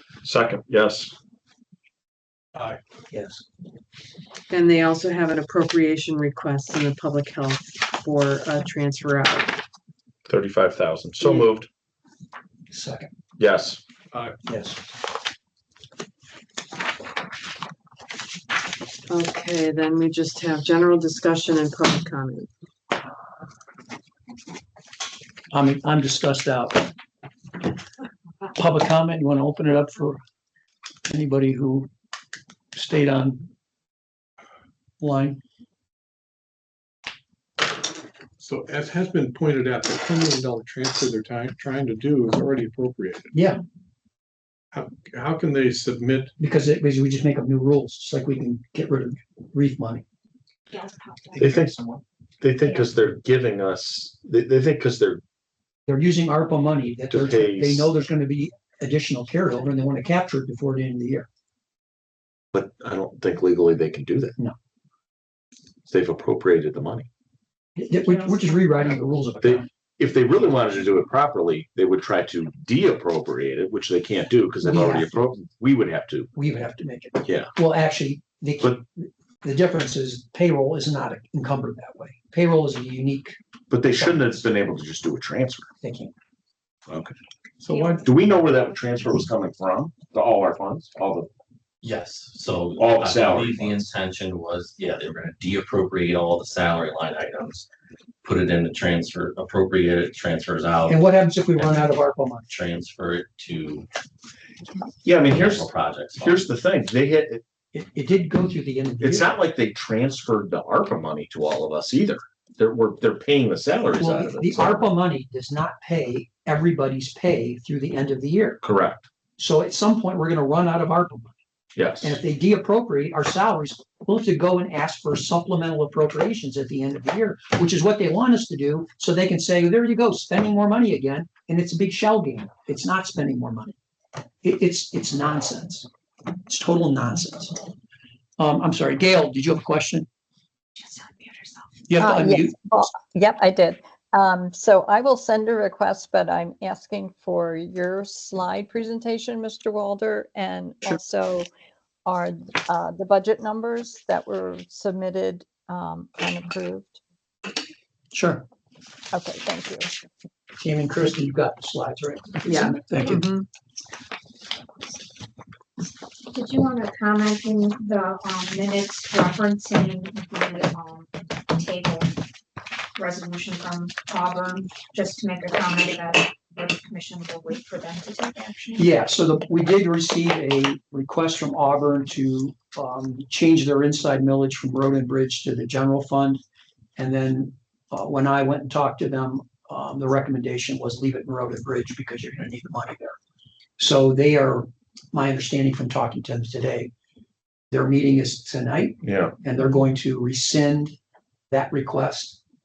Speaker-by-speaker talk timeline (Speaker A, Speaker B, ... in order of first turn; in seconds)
Speaker A: 0.2-1.1, 10.3-11.7, 13.4-13.8, 51.4-51.8, 52.4-55.2, 57.1-57.9, 62.5-64.3, 65.9-67.1, 69.4-76.3, 77.2-77.5, 83.7-85.7, 86.9-87.1, 88.0-91.3, 92.8-93.8, 105.0-107.4, 109.0-114.8, 118.6-119.1, 121.8-122.2, 199.0-199.3
Speaker B: 2.5-2.8, 38.4-43.3, 44.7-46.3, 87.6-88.1
Speaker C: 3.1-3.4, 12.7-13.1, 14.4-14.8, 25.5-26.9, 28.5-30.2, 31.1-31.9, 32.7-33.5, 35.0-35.4, 43.3-43.6, 46.4-50.0, 51.3-52.0, 55.9-61.3, 67.8-69.7, 74.6-75.3, 76.3-83.4, 83.9-84.4, 85.8-86.1, 100.8-102.5, 107.7-109.3, 114.0-118.6, 119.4-121.3, 122.0-133.7, 134.4-135.9, 136.5-137.6, 138.4-140.1, 141.9-142.9, 158.1-158.4, 160.6-163.3, 178.8-186.4, 187.0-193.2, 193.8-196.9, 197.7-200.9, 201.5-202.4
Speaker D: 4.5-9.5, 11.2-11.5, 19.1-22.5, 162.4-163.4
Speaker E: 50.7-51.4, 140.8-141.8, 166.3-172.2, 172.9-178.9
Speaker F: 91.8-97.7, 98.2-101.0, 101.5-102.0, 102.5-103.9, 105.2-106.5
Speaker G: 142.0-151.5, 152.1-157.0, 159.1-159.9